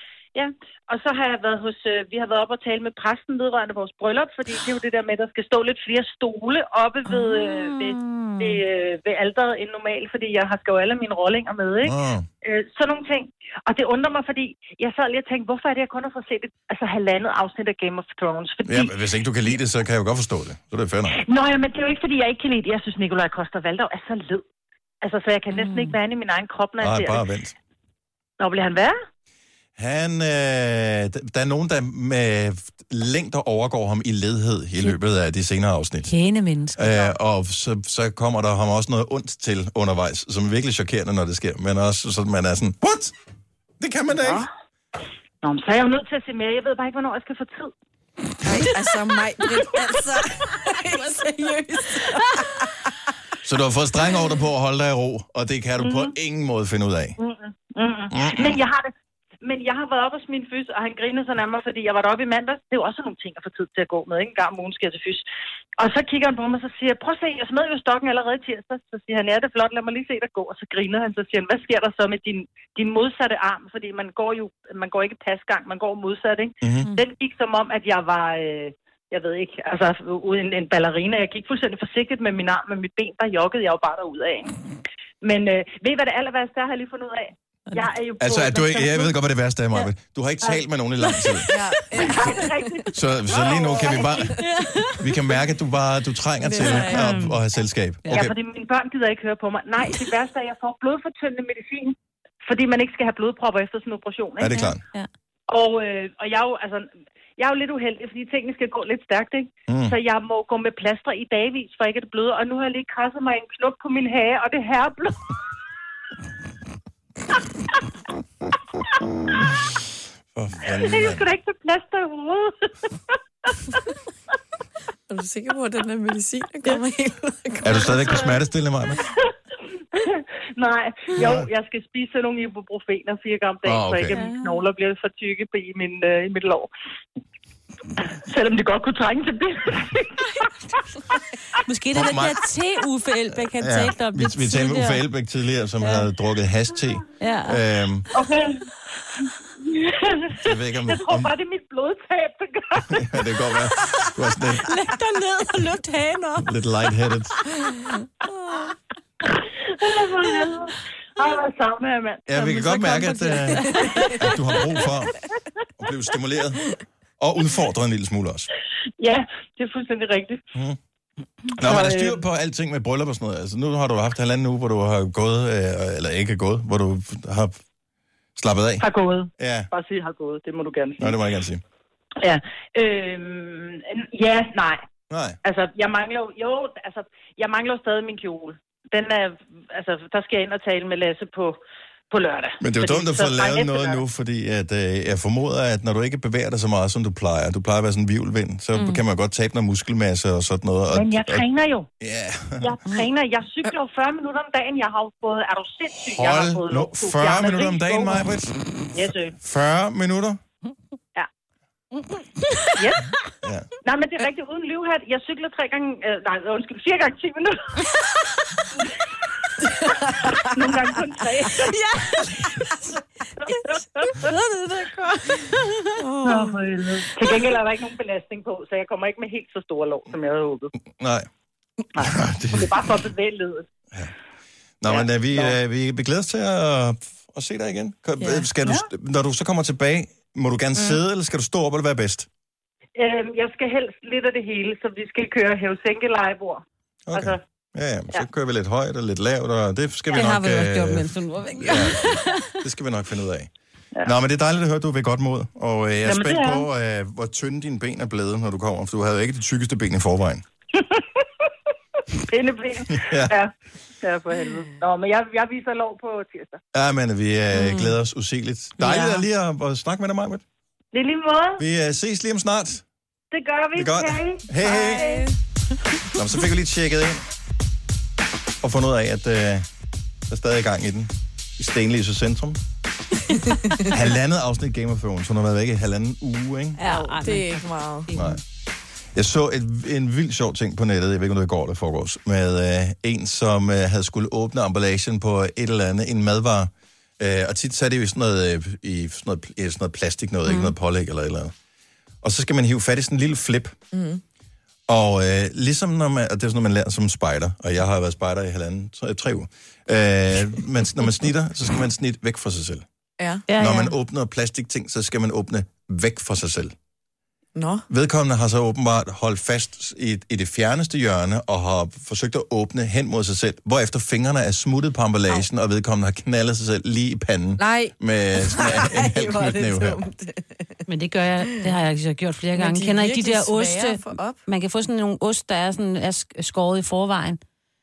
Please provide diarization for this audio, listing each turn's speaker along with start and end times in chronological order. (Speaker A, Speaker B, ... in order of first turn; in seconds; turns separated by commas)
Speaker A: 0.3-19.0, Speaker B: 7.1-8.6, Speaker C: 11.8-12.3, Speaker C: 18.6-21.2, Speaker A: 21.1-24.4, Speaker A: 25.0-27.3, Speaker B: 25.5-26.0, Speaker C: 26.8-27.5, Speaker A: 28.4-29.0, Speaker C: 29.8-36.1, Speaker B: 36.0-37.0, Speaker C: 36.8-43.1, Speaker C: 43.8-44.5, Speaker A: 44.1-44.5, Speaker A: 45.4-47.7, Speaker D: 48.4-52.9, Speaker B: 51.0-52.0, Speaker C: 53.4-57.2, Speaker A: 55.8-56.1, Speaker A: 57.2-65.3, Speaker C: 58.1-58.6, Speaker A: 65.8-84.5, Speaker C: 76.6-76.9, Speaker A: 85.2-89.1, Speaker C: 88.2-91.5, Speaker D: 91.5-92.5, Speaker A: 92.0-94.2, Speaker C: 92.9-94.4, Speaker D: 93.6-94.5, Speaker B: 94.4-95.0, Speaker C: 95.0-98.3, Speaker D: 96.4-97.1, Speaker B: 96.7-97.4, Speaker A: 98.1-104.7, Speaker C: 104.4-104.8, Speaker B: 104.5-105.1, Speaker A: 105.5-115.3, Speaker C: 109.7-110.0, Speaker C: 119.3-119.6, Speaker C: 120.3-121.3, Speaker A: 120.7-122.9, Speaker D: 125.1-128.2, Speaker C: 127.6-129.0, Speaker A: 129.9-136.7, Speaker C: 131.2-131.5, Speaker C: 133.7-134.2, Speaker B: 134.1-134.7, Speaker A: 138.2-140.3, Speaker B: 141.7-145.0, Speaker C: 141.9-142.4, Speaker C: 143.6-148.1, Speaker B: 145.8-146.1, Speaker B: 147.2-147.6, Speaker A: 148.1-148.7, Speaker A: 149.7-153.2, Speaker C: 150.4-151.3, Speaker C: 152.8-154.7, Speaker B: 154.6-156.5, Speaker C: 156.4-157.4, Speaker B: 157.7-158.0, Speaker A: 159.8-162.3, Speaker C: 162.3-165.2, Speaker B: 162.3-164.5, Speaker C: 165.8-166.6, Speaker C: 167.2-168.5, Speaker A: 169.0-170.4, Speaker C: 171.6-177.6, Speaker A: 171.6-172.2, Speaker C: 178.4-178.9, Speaker A: 178.8-181.2, Speaker C: 179.4-179.7, Speaker C: 181.0-181.6, Speaker A: 182.2-184.8, Speaker C: 185.1-185.4, Speaker A: 185.4-191.6, Speaker A: 192.1-194.0, Speaker C: 192.6-201.5, Speaker B: 198.8-199.0, Speaker A: 200.9-201.9, Speaker C: 202.0-202.8, Speaker A: 202.6-208.3, Speaker C: 205.9-208.6, Speaker A: 208.9-209.3, Speaker C: 209.4-210.4, Speaker B: 212.4-212.8, Speaker A: 212.8-213.0, Speaker A: 213.8-217.9, Speaker A: 220.4-221.8, Speaker B: 221.6-222.8, Speaker A: 223.5-224.3, Speaker B: 224.1-226.5, Speaker D: 226.0-226.6, Speaker A: 226.2-230.7, Speaker C: 230.8-231.3, Speaker A: 231.9-233.7, Speaker C: 232.0-233.0, Speaker C: 234.8-242.3, Speaker A: 234.9-235.6, Speaker A: 243.0-247.4, Speaker C: 247.1-253.5, Speaker B: 250.1-252.5, Speaker C: 254.0-260.4, Speaker A: 256.1-256.7, Speaker A: 260.8-261.2, Speaker A: 262.2-266.6, Speaker C: 262.9-263.4, Speaker C: 266.7-270.4, Speaker B: 267.5-268.0, Speaker B: 268.8-269.2, Speaker A: 270.9-271.6, Speaker C: 271.6-272.8, Speaker A: 273.3-274.5, Speaker C: 273.7-275.1, Speaker D: 274.6-275.3, Speaker C: 276.1-277.2, Speaker C: 278.6-279.7, Speaker C: 280.3-282.6, Speaker C: 283.9-286.8, Speaker B: 286.8-288.4, Speaker D: 286.8-288.1, Speaker C: 288.1-288.4, Speaker C: 289.1-301.5, Speaker B: 300.5-300.7, Speaker C: 302.2-303.8, Speaker D: 303.9-304.2, Speaker C: 304.9-312.9, Speaker D: 313.2-313.4, Speaker B: 313.5-313.9, Speaker C: 313.6-316.7, Speaker D: 317.6-317.9, Speaker C: 317.9-330.0, Speaker D: 327.6-330.8, Speaker B: 330.9-337.4, Speaker D: 332.6-334.4